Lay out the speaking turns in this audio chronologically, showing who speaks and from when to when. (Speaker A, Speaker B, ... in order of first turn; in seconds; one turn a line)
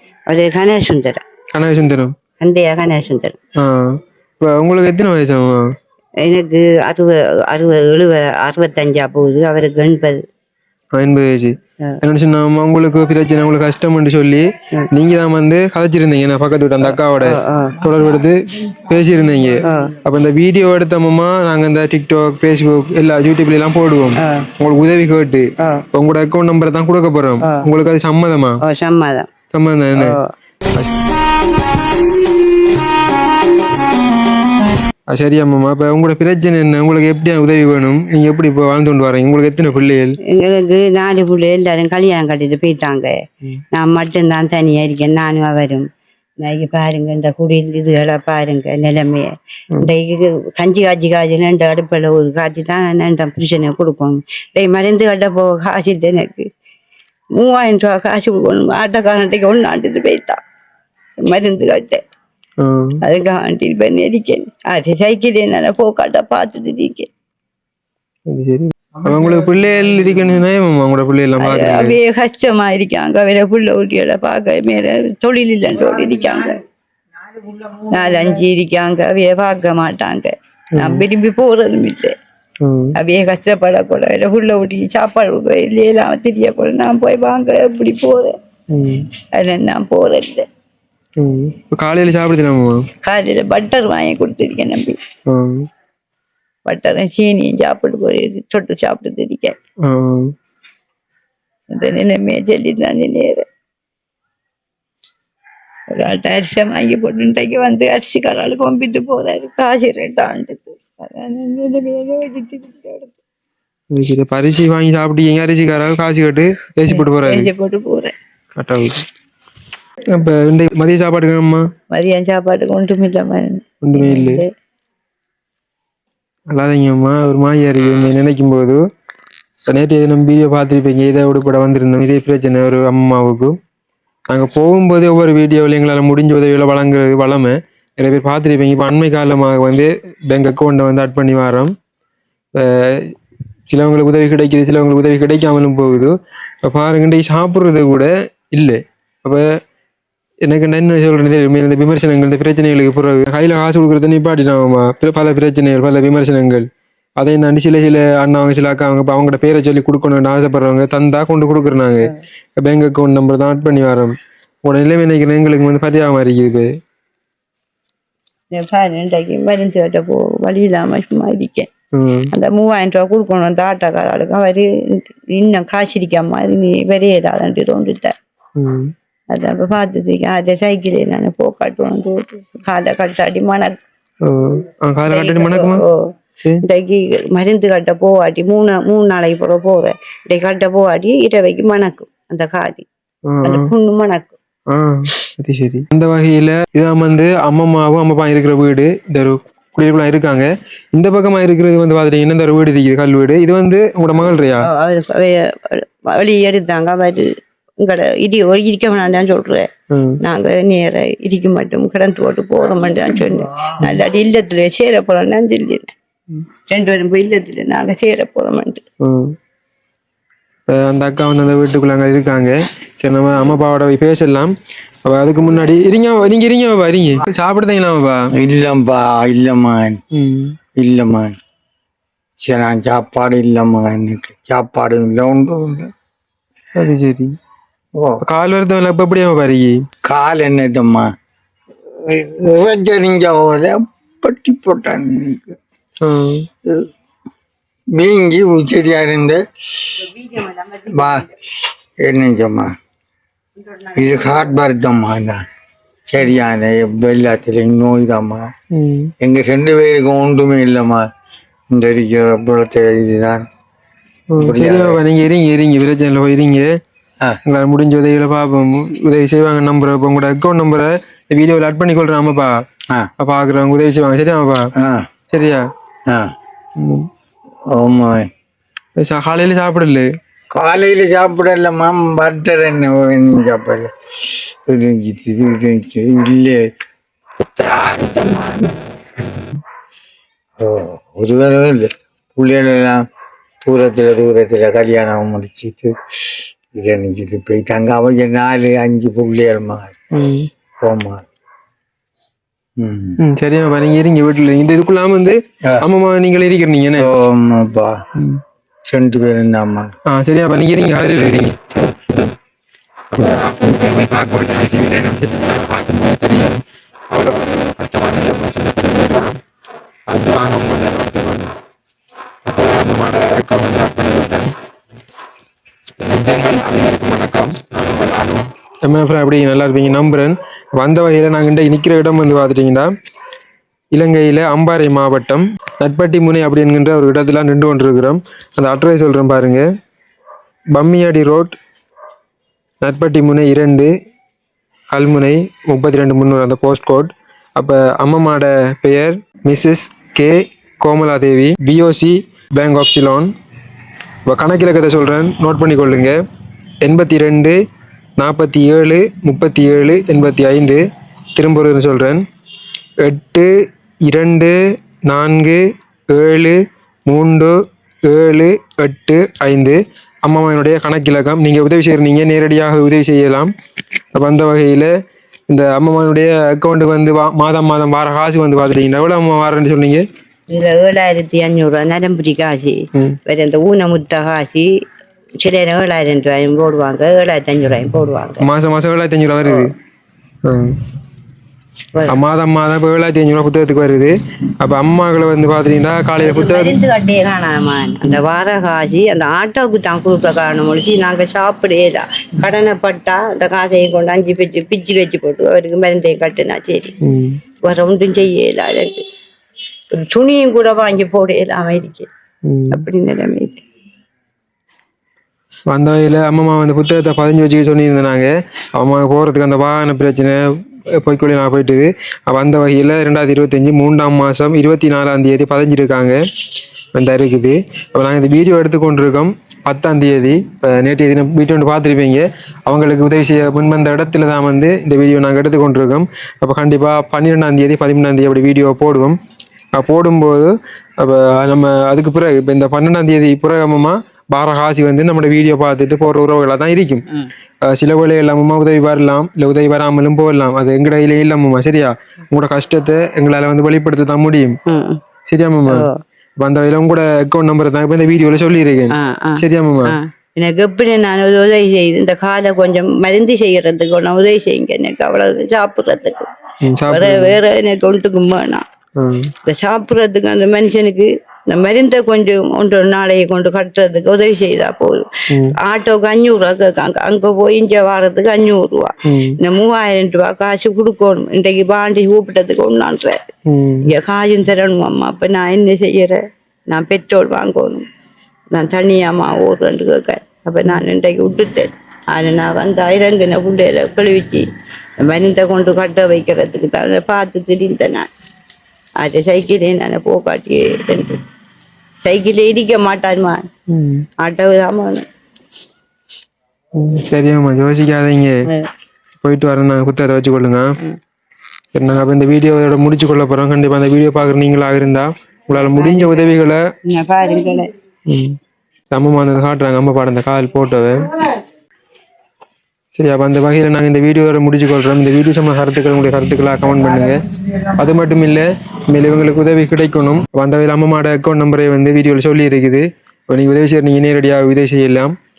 Speaker A: 0.3-1.2
Speaker B: 1.5-2.1
Speaker A: 2.4-3.4
Speaker B: 3.6-5.7
Speaker A: 6.2-10.2
Speaker B: 10.9-28.6
Speaker A: 16.8-17.8
Speaker A: 19.6-19.9
Speaker A: 24.2-24.5
Speaker A: 25.6-25.9
Speaker A: 28.6-29.3
Speaker B: 29.5-30.2
Speaker A: 30.0-30.3
Speaker B: 35.1-40.2
Speaker A: 40.3-43.2
Speaker A: 43.7-45.9
Speaker A: 46.4-56.5
Speaker A: 57.4-60.4
Speaker A: 61.3-62.0
Speaker B: 62.6-63.0
Speaker A: 63.0-67.1
Speaker B: 68.3-72.0
Speaker A: 71.4-76.6
Speaker A: 77.5-82.1
Speaker B: 80.8-81.0
Speaker B: 82.6-83.0
Speaker A: 83.0-88.3
Speaker B: 88.7-89.1
Speaker A: 89.4-90.5
Speaker B: 91.2-92.9
Speaker A: 93.0-95.0
Speaker B: 95.3-95.7
Speaker A: 96.7-99.5
Speaker B: 99.8-100.3
Speaker A: 101.7-103.5
Speaker A: 105.9-113.2
Speaker B: 113.9-117.5
Speaker A: 116.9-118.1
Speaker B: 118.5-119.1
Speaker B: 120.1-121.7
Speaker A: 121.9-124.5
Speaker B: 123.8-124.4
Speaker B: 126.5-128.8
Speaker B: 129.7-133.6
Speaker B: 134.3-141.7
Speaker B: 142.6-143.1
Speaker B: 143.7-146.1
Speaker B: 146.6-149.4
Speaker B: 150.5-156.7
Speaker B: 157.2-166.7
Speaker A: 168.5-171.7
Speaker B: 171.9-172.3
Speaker A: 172.3-178.1
Speaker B: 178.6-178.9
Speaker A: 179.3-183.7
Speaker B: 184.2-185.8
Speaker A: 185.1-186.1
Speaker A: 186.6-192.9
Speaker B: 193.3-193.7
Speaker A: 193.4-194.4
Speaker B: 194.7-204.7
Speaker A: 204.6-207.3
Speaker A: 207.8-209.7
Speaker B: 209.9-210.2
Speaker A: 210.2-215.9
Speaker A: 216.7-218.8
Speaker B: 219.0-219.3
Speaker B: 220.7-224.5
Speaker B: 225.1-228.3
Speaker C: 228.4-230.0
Speaker B: 230.1-230.6
Speaker C: 230.8-231.3
Speaker C: 232.4-235.9
Speaker B: 236.8-237.3
Speaker B: 238.2-239.8
Speaker C: 240.1-241.1
Speaker C: 241.9-245.6
Speaker B: 246.0-246.5
Speaker C: 247.9-249.4
Speaker A: 250.1-251.2
Speaker C: 250.9-251.3
Speaker C: 252.0-252.7
Speaker C: 253.9-255.4
Speaker C: 256.1-258.5
Speaker B: 258.7-259.1
Speaker C: 259.2-261.1
Speaker C: 261.7-263.4
Speaker B: 264.3-266.7
Speaker C: 264.4-265.0
Speaker B: 267.5-272.5
Speaker B: 273.2-274.7
Speaker C: 274.8-275.1
Speaker B: 275.3-275.6
Speaker B: 276.8-277.1
Speaker C: 277.7-278.3
Speaker B: 279.0-280.1
Speaker C: 280.5-286.7
Speaker C: 287.6-288.8
Speaker C: 290.6-293.0
Speaker C: 293.6-300.0
Speaker B: 300.1-300.5
Speaker C: 300.8-301.2
Speaker C: 302.8-303.2
Speaker B: 303.2-307.1
Speaker C: 307.0-308.0
Speaker B: 308.2-308.4
Speaker C: 308.9-309.9
Speaker B: 310.1-311.6
Speaker B: 313.1-319.4
Speaker B: 320.1-321.5
Speaker B: 322.6-324.5
Speaker B: 326.0-332.9
Speaker B: 333.9-339.6
Speaker B: 340.7-341.6
Speaker B: 342.8-343.9
Speaker B: 344.9-353.3
Speaker B: 354.3-356.1
Speaker B: 356.8-357.6
Speaker B: 358.2-360.8
Speaker B: 361.4-362.2
Speaker B: 363.0-363.5
Speaker B: 364.1-367.5
Speaker B: 368.1-373.5
Speaker B: 374.1-374.9
Speaker B: 375.5-380.0
Speaker A: 380.5-384.7
Speaker A: 385.4-388.4
Speaker B: 388.4-389.7
Speaker A: 389.4-389.7
Speaker B: 390.4-390.8
Speaker B: 392.1-396.8
Speaker A: 396.2-407.0
Speaker B: 407.0-407.4
Speaker A: 407.7-409.0
Speaker A: 409.9-412.1
Speaker B: 412.5-412.8
Speaker A: 412.7-413.6
Speaker B: 415.7-420.4
Speaker B: 421.0-426.2
Speaker B: 426.9-439.2
Speaker B: 439.8-447.1
Speaker B: 447.6-454.6
Speaker A: 454.7-455.0
Speaker B: 455.3-455.9
Speaker A: 455.7-456.0
Speaker B: 456.4-460.0
Speaker A: 458.9-466.3
Speaker B: 466.6-467.4
Speaker A: 466.9-468.6
Speaker B: 469.0-469.3
Speaker A: 469.5-483.2
Speaker B: 475.3-475.6
Speaker B: 479.1-479.4
Speaker B: 483.5-483.9
Speaker A: 483.9-486.2
Speaker A: 486.7-487.9
Speaker A: 488.5-494.5
Speaker A: 495.0-498.1
Speaker A: 499.0-501.2
Speaker A: 502.0-503.5
Speaker B: 503.7-504.1
Speaker A: 504.2-505.1
Speaker B: 506.8-508.4
Speaker B: 509.2-510.7
Speaker B: 511.7-516.6
Speaker A: 515.5-516.3
Speaker A: 516.9-517.7
Speaker B: 518.1-518.4
Speaker B: 518.9-521.1
Speaker B: 522.9-535.1